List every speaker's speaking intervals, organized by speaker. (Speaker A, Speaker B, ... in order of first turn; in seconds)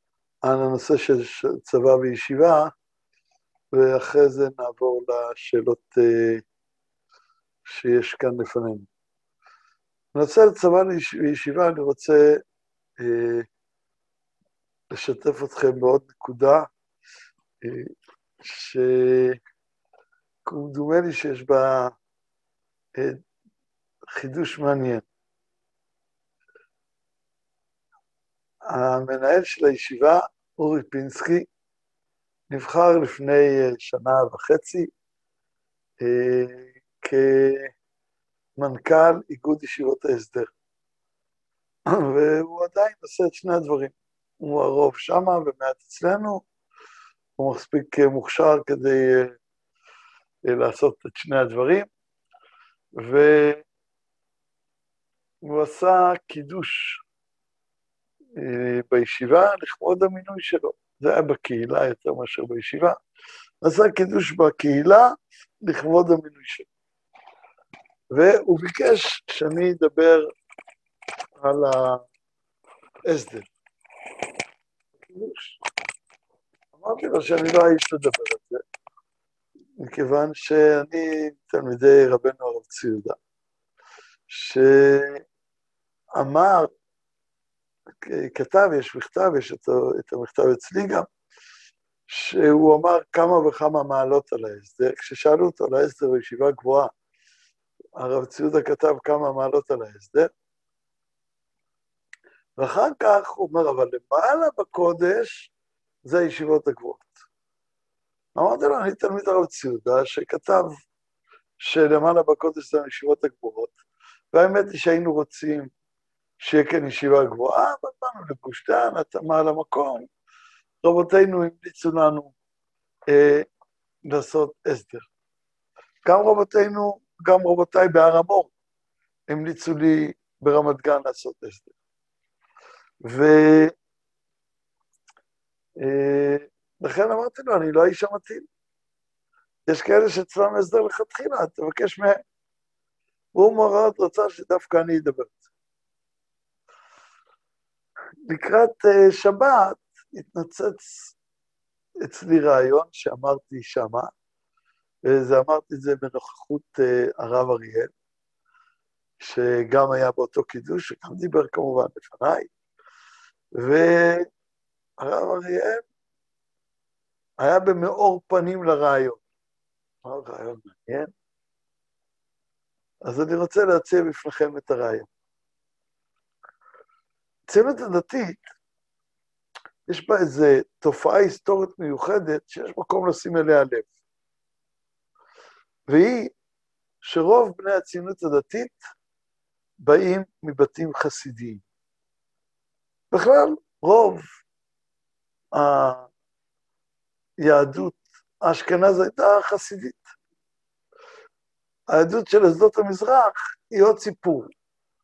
Speaker A: 0.4-2.7, 3.7-6.4, 7.7-8.9, 10.2-12.4, 13.0-13.5, 14.9-16.7, 17.6-19.4, 20.4-22.0, 22.9-23.2, 24.1-25.1, 28.6-31.5, 32.5-34.9, 36.0-37.8, 38.6-40.5, 41.9-46.5, 47.4-49.4, 50.5-51.9, 53.0-53.6, 55.4-57.0, 58.4-63.0, 63.6-66.7, 68.1-70.3, 71.4-72.0, 73.1-73.5, 75.0-75.6, 76.7-78.6, 79.8-83.2, 84.3-85.2, 86.2-86.7, 88.0-91.1, 92.1-96.9, 98.0-100.3, 102.6-105.5, 106.0-107.2, 108.4-110.8, 111.6-113.8, 114.3-115.7, 116.4-120.1, 120.8-122.3, 123.1-123.5, 124.0-125.1, 126.0-128.5, 129.3-131.7, 133.0-133.7, 135.8-138.5, 139.7-142.2, 143.3-145.4, 148.3-151.2, 152.0-154.1, 155.1-157.9, 159.2-162.5, 163.6-164.3, 165.0-165.8, 167.4-169.2, 170.0-171.1, 173.0-175.1, 177.5-178.5, 179.9-183.9, 185.9-186.3, 187.0-188.8, 189.8-191.6, 193.1-194.3, 195.5-196.1, 197.4-200.1, 201.9-204.5